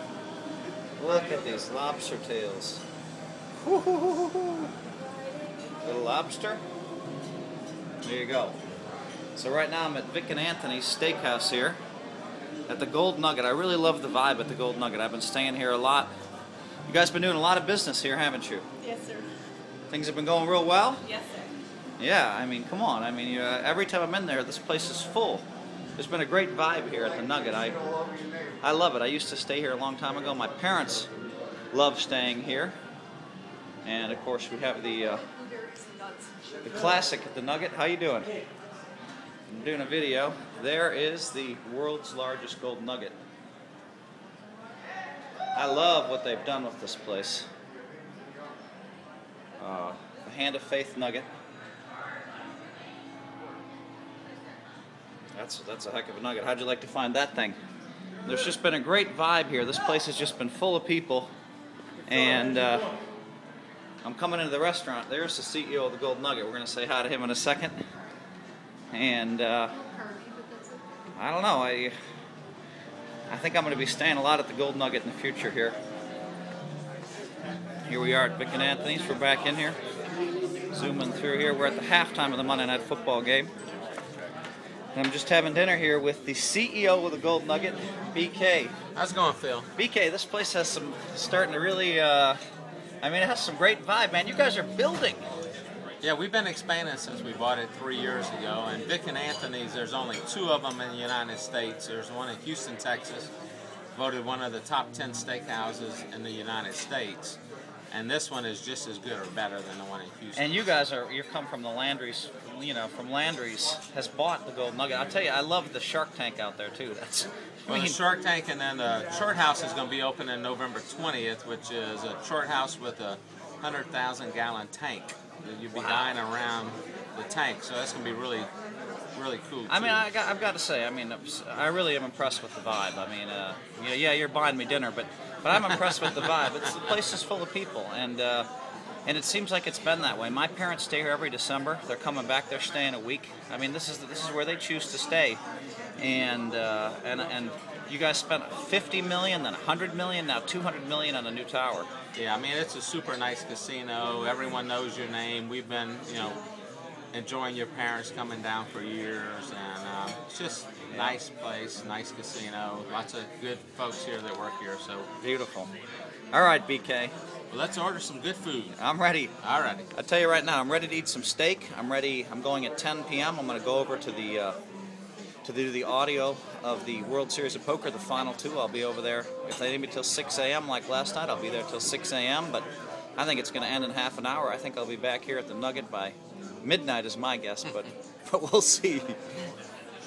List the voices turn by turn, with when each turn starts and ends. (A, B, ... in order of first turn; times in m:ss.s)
0:01.0-0:02.8 A
0:03.6-0:04.7 A
0:05.8-0:06.6 A
0:08.0-0:08.6 A
0:09.4-0:11.8 A
0:12.7-0:16.1 A
0:16.9-0:18.6 A
0:18.8-0:19.3 B
0:19.9-0:21.1 A
0:21.1-0:21.5 B
0:22.0-0:25.4 A
0:26.0-0:27.8 A
0:28.6-0:31.1 A
0:31.7-0:32.8 A
0:33.8-0:35.3 A
0:35.3-0:36.6 B
0:36.6-0:38.3 A
0:39.5-0:43.2 A
0:45.5-0:47.5 A
0:49.6-0:51.3 A
0:55.4-0:57.6 A
0:58.2-1:01.3 A
1:02.1-1:02.9 A
1:04.0-1:07.8 A
1:08.9-1:09.8 A
1:09.9-1:10.8 B
1:11.2-1:11.9 A
1:13.3-1:15.8 A
1:17.8-1:19.8 A
1:20.7-1:23.5 A
1:24.9-1:28.7 A
1:28.9-1:29.7 C
1:29.8-1:32.4 A
1:33.0-1:35.2 A
1:36.0-1:43.3 C
1:43.9-1:47.4 C
1:47.9-1:50.6 C
1:50.3-1:58.0 A
1:57.7-2:08.5 C
2:05.7-2:06.1 A
2:09.1-2:10.1 C
2:09.7-2:18.5 A
2:15.7-2:16.3 C
2:19.0-2:25.4 A
2:26.0-2:31.9 A
2:32.1-2:36.4 C
2:37.1-2:45.1 C
2:40.9-2:41.2 A
2:45.2-2:45.7 A
2:46.3-2:47.1 A
2:47.5-2:48.8 C
2:48.8-2:49.3 A
2:49.4-2:49.9 C
2:49.9-2:54.6 A
2:55.4-3:09.2 A